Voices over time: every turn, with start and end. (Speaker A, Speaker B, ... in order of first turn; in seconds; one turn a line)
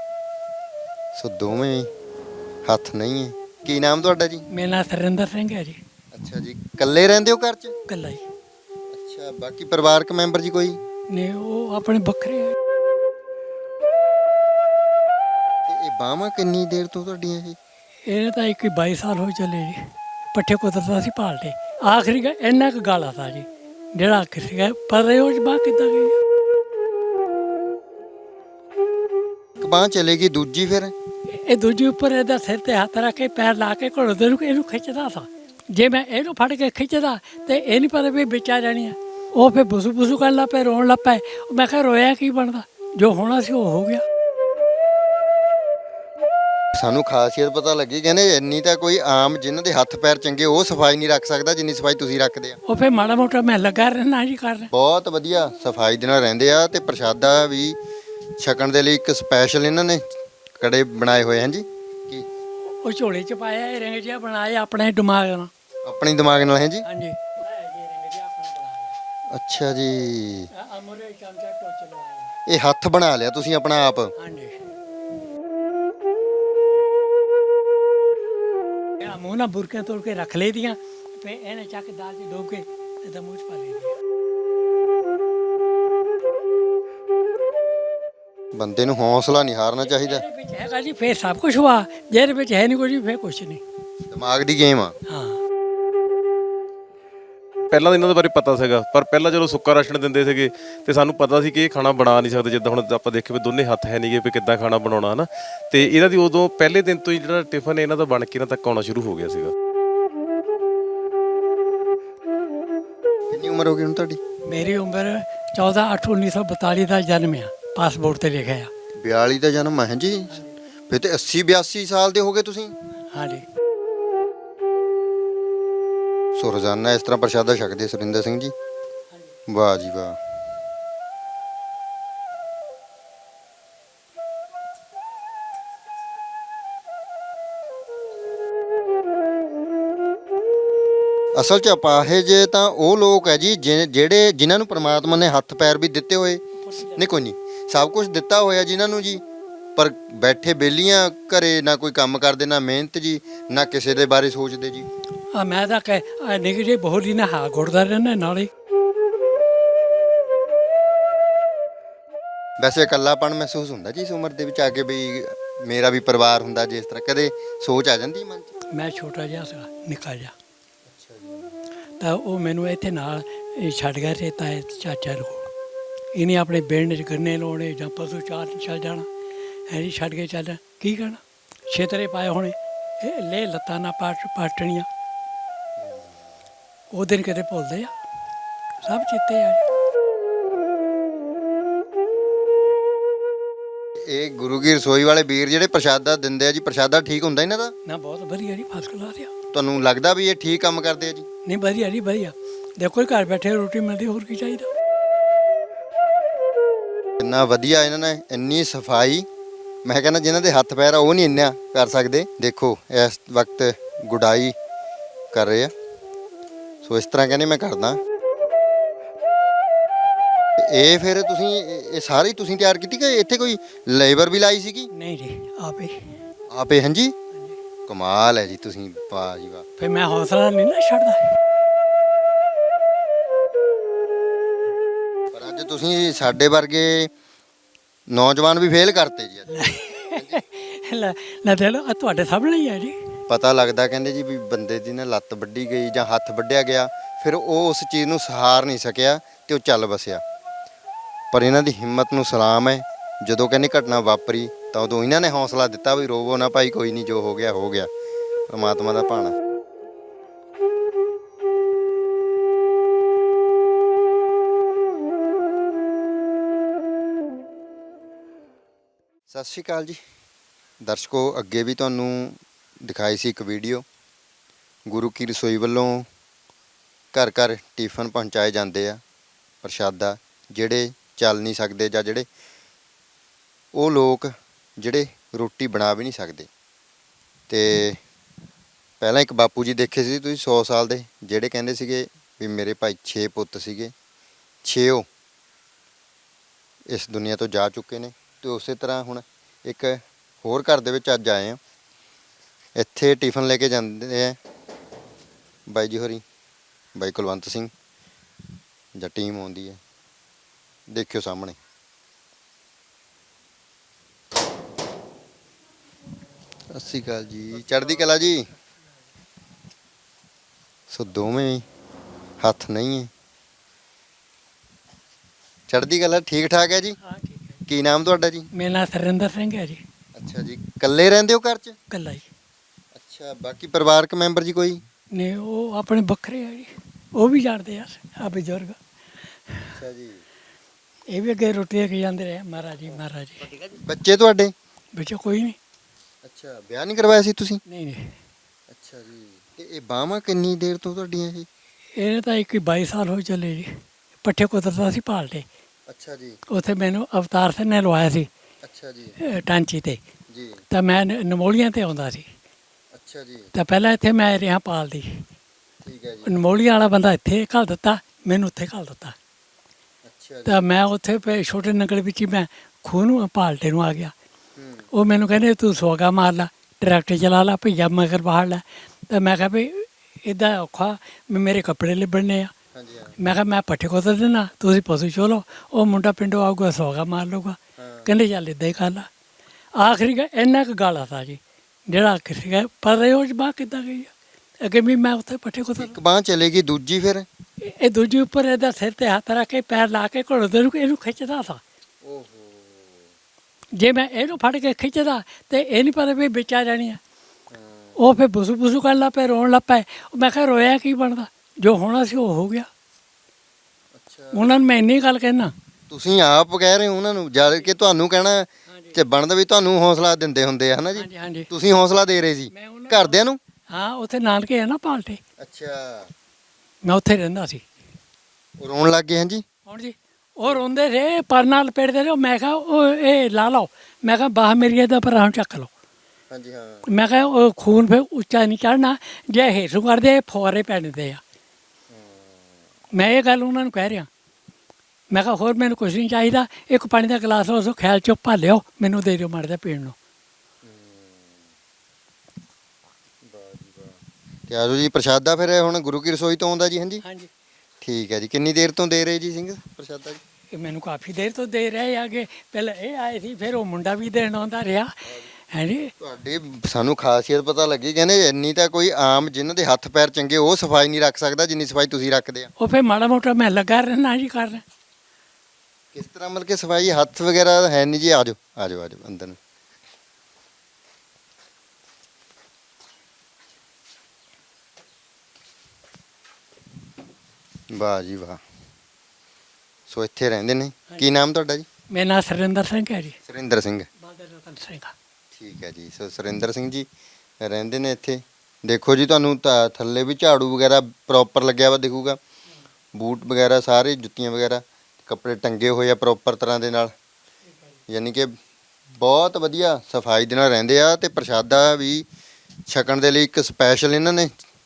Speaker A: 1.1-1.9
Speaker A: 2.6-4.4
Speaker B: 4.5-5.8
Speaker A: 6.1-7.8
Speaker B: 7.9-8.2
Speaker A: 8.9-10.8
Speaker B: 11.1-12.6
Speaker A: 15.7-17.6
Speaker B: 18.1-26.2
Speaker A: 29.6-30.9
Speaker B: 31.3-44.0
Speaker A: 46.7-52.6
Speaker B: 52.6-54.7
Speaker A: 54.7-57.8
Speaker A: 58.4-62.3
Speaker B: 62.8-65.5
Speaker A: 65.8-66.8
Speaker B: 66.8-69.0
Speaker A: 69.3-70.5
Speaker B: 70.5-72.3
Speaker A: 72.5-74.1
Speaker B: 74.2-74.6
Speaker B: 79.0-84.0
Speaker A: 88.5-90.2
Speaker B: 89.8-93.6
Speaker A: 94.1-95.0
Speaker B: 95.1-95.4
Speaker C: 97.7-109.5
Speaker A: 113.3-114.2
Speaker B: 114.4-118.7
Speaker A: 118.9-120.3
Speaker B: 120.3-120.6
Speaker A: 120.9-122.8
Speaker B: 123.1-123.5
Speaker A: 126.3-128.5
Speaker B: 129.1-129.4
Speaker A: 129.5-130.2
Speaker A: 141.3-149.2
Speaker B: 146.6-147.1
Speaker A: 149.8-154.9
Speaker B: 155.3-158.5
Speaker A: 162.6-168.5
Speaker B: 168.7-170.3
Speaker A: 170.9-171.6
Speaker B: 172.0-175.5
Speaker B: 176.1-179.1
Speaker B: 179.7-184.9
Speaker A: 185.8-186.3
Speaker B: 186.9-187.9
Speaker B: 188.8-189.7
Speaker A: 194.0-197.7
Speaker B: 197.8-199.3
Speaker A: 199.5-201.3
Speaker B: 201.4-204.7
Speaker A: 207.2-209.3
Speaker A: 209.8-214.5
Speaker A: 215.3-215.7
Speaker A: 216.8-218.0
Speaker A: 220.6-224.9
Speaker B: 224.9-226.2
Speaker A: 226.5-227.1
Speaker B: 227.3-227.6
Speaker A: 227.9-229.7
Speaker B: 229.8-231.3
Speaker A: 235.3-237.1
Speaker A: 238.1-240.4
Speaker B: 239.5-243.1
Speaker A: 243.3-250.2
Speaker A: 251.3-257.9
Speaker A: 258.5-259.4
Speaker A: 269.3-270.0
Speaker A: 270.8-273.8
Speaker A: 274.9-276.1
Speaker A: 277.1-279.0
Speaker A: 279.6-282.3
Speaker A: 283.7-286.5
Speaker A: 287.5-288.0
Speaker A: 289.0-293.9
Speaker A: 294.6-295.1
Speaker A: 296.9-301.6
Speaker A: 302.8-304.4
Speaker A: 305.7-306.2
Speaker A: 306.9-307.7
Speaker A: 308.9-309.8
Speaker A: 310.9-311.6
Speaker A: 316.7-318.5
Speaker A: 320.9-321.6
Speaker A: 322.4-323.1
Speaker A: 325.7-327.0
Speaker B: 327.0-327.6
Speaker A: 327.7-328.5
Speaker B: 328.5-329.8
Speaker A: 330.1-331.8
Speaker B: 331.9-332.3
Speaker A: 332.9-334.8
Speaker B: 335.1-338.8
Speaker B: 339.5-339.7
Speaker A: 339.7-340.2
Speaker B: 341.1-343.5
Speaker A: 342.9-344.5
Speaker B: 344.9-345.6
Speaker A: 346.2-347.6
Speaker B: 347.7-348.1
Speaker A: 348.7-351.5
Speaker B: 351.9-355.5
Speaker A: 355.9-356.4
Speaker B: 356.5-358.3
Speaker A: 358.6-359.2
Speaker B: 359.2-360.0
Speaker A: 360.3-360.6
Speaker B: 360.7-362.3
Speaker A: 362.9-363.5
Speaker B: 363.5-365.2
Speaker A: 365.8-366.3
Speaker B: 366.2-369.1
Speaker A: 370.0-370.6
Speaker B: 370.4-374.1
Speaker A: 374.6-374.9
Speaker B: 374.9-382.5
Speaker A: 382.7-383.1
Speaker B: 383.2-389.1
Speaker A: 387.8-388.1
Speaker B: 389.7-396.0
Speaker A: 395.8-397.2
Speaker B: 397.6-401.6
Speaker A: 402.0-403.1
Speaker B: 403.7-407.0
Speaker A: 407.5-408.0
Speaker B: 408.0-412.7
Speaker A: 413.9-414.5
Speaker B: 414.3-415.5
Speaker A: 415.9-423.4
Speaker B: 418.7-419.0
Speaker B: 420.9-421.5
Speaker B: 422.5-425.2
Speaker A: 425.4-426.1
Speaker B: 426.8-427.6
Speaker A: 428.6-429.4
Speaker B: 429.7-435.7
Speaker A: 436.3-436.8
Speaker B: 436.9-441.2
Speaker A: 441.9-442.6
Speaker B: 442.9-444.1
Speaker B: 445.1-449.9
Speaker A: 450.6-451.5
Speaker A: 453.2-457.0
Speaker B: 457.0-457.3
Speaker A: 457.8-460.2
Speaker B: 460.5-465.9
Speaker A: 466.0-472.5
Speaker B: 472.6-474.6
Speaker A: 475.9-479.4
Speaker A: 487.7-488.4
Speaker A: 489.9-491.7
Speaker B: 491.9-493.2
Speaker A: 493.2-493.9
Speaker B: 494.0-494.9
Speaker A: 495.3-496.9
Speaker A: 497.4-502.2
Speaker A: 502.9-506.9
Speaker B: 507.4-507.8
Speaker A: 507.9-508.3
Speaker A: 508.9-512.1
Speaker A: 512.7-514.3